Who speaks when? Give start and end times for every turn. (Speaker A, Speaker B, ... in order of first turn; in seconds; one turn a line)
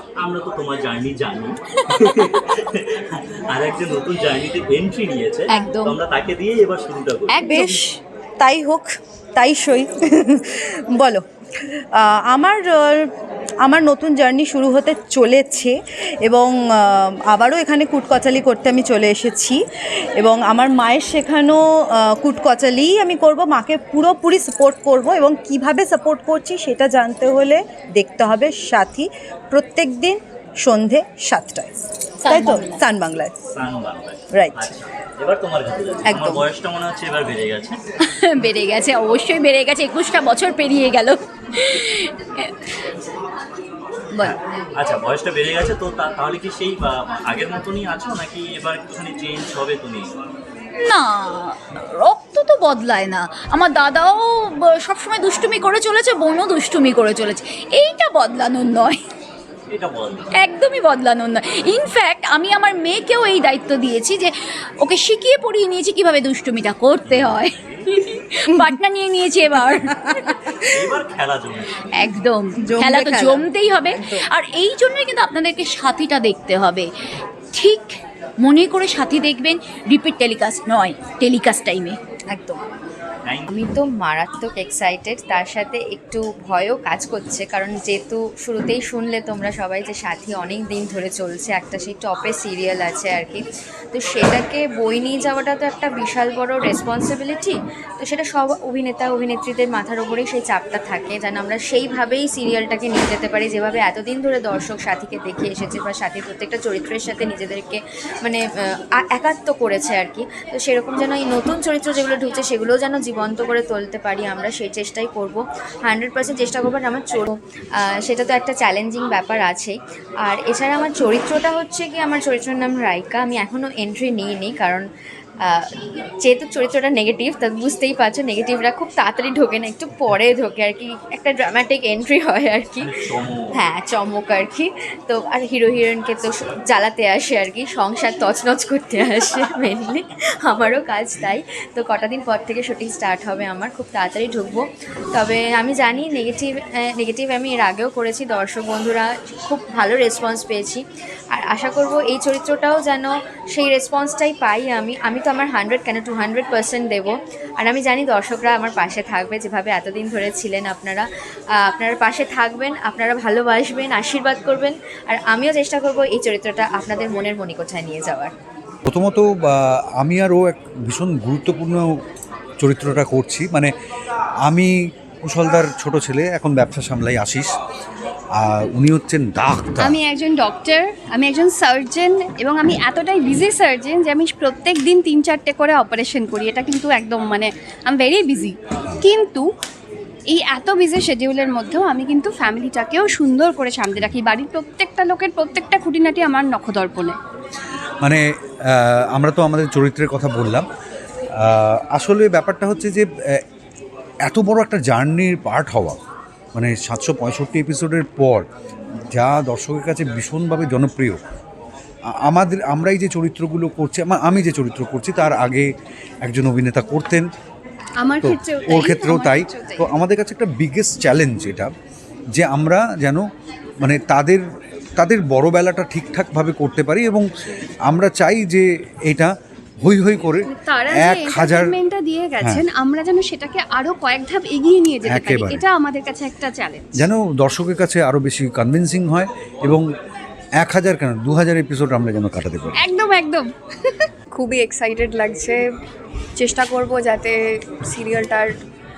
Speaker A: 0.2-7.4
Speaker B: 1.9-2.4
Speaker B: 5.5-6.0
Speaker B: 7.3-7.9
Speaker C: 7.4-11.2
Speaker C: 11.9-13.1
Speaker C: 13.6-15.7
Speaker C: 16.2-19.6
Speaker C: 20.2-31.7
Speaker B: 32.2-32.8
Speaker C: 32.2-33.3
Speaker A: 33.5-37.8
Speaker C: 34.3-34.7
Speaker C: 36.0-36.4
Speaker B: 38.0-42.5
Speaker A: 44.2-50.1
Speaker B: 50.8-59.0
Speaker A: 59.7-60.3
Speaker B: 60.4-70.3
Speaker A: 67.0-67.9
Speaker A: 70.7-71.8
Speaker B: 72.0-76.9
Speaker C: 72.6-74.2
Speaker B: 77.5-82.6
Speaker A: 83.2-83.5
Speaker D: 83.5-108.4
Speaker D: 109.1-119.7
Speaker D: 120.2-124.8
Speaker D: 126.2-132.9
Speaker A: 132.8-133.5
Speaker D: 133.6-144.6
Speaker D: 145.1-150.8
Speaker D: 151.3-161.0
Speaker D: 161.7-168.3
Speaker E: 168.9-171.9
Speaker E: 172.6-173.7
Speaker E: 174.4-177.5
Speaker E: 178.3-180.0
Speaker F: 179.8-189.5
Speaker F: 190.3-197.2
Speaker E: 198.0-200.7
Speaker E: 201.4-203.4
Speaker E: 204.2-206.0
Speaker E: 206.6-208.4
Speaker E: 209.1-211.2
Speaker E: 212.2-215.7
Speaker E: 216.2-217.3
Speaker F: 218.0-219.9
Speaker E: 218.2-221.7
Speaker E: 222.3-223.2
Speaker E: 223.8-224.4
Speaker E: 225.0-227.3
Speaker E: 227.8-231.8
Speaker F: 230.4-236.9
Speaker E: 235.0-235.6
Speaker E: 236.9-239.8
Speaker E: 240.6-242.8
Speaker F: 242.8-244.0
Speaker G: 244.3-245.6
Speaker G: 246.4-248.5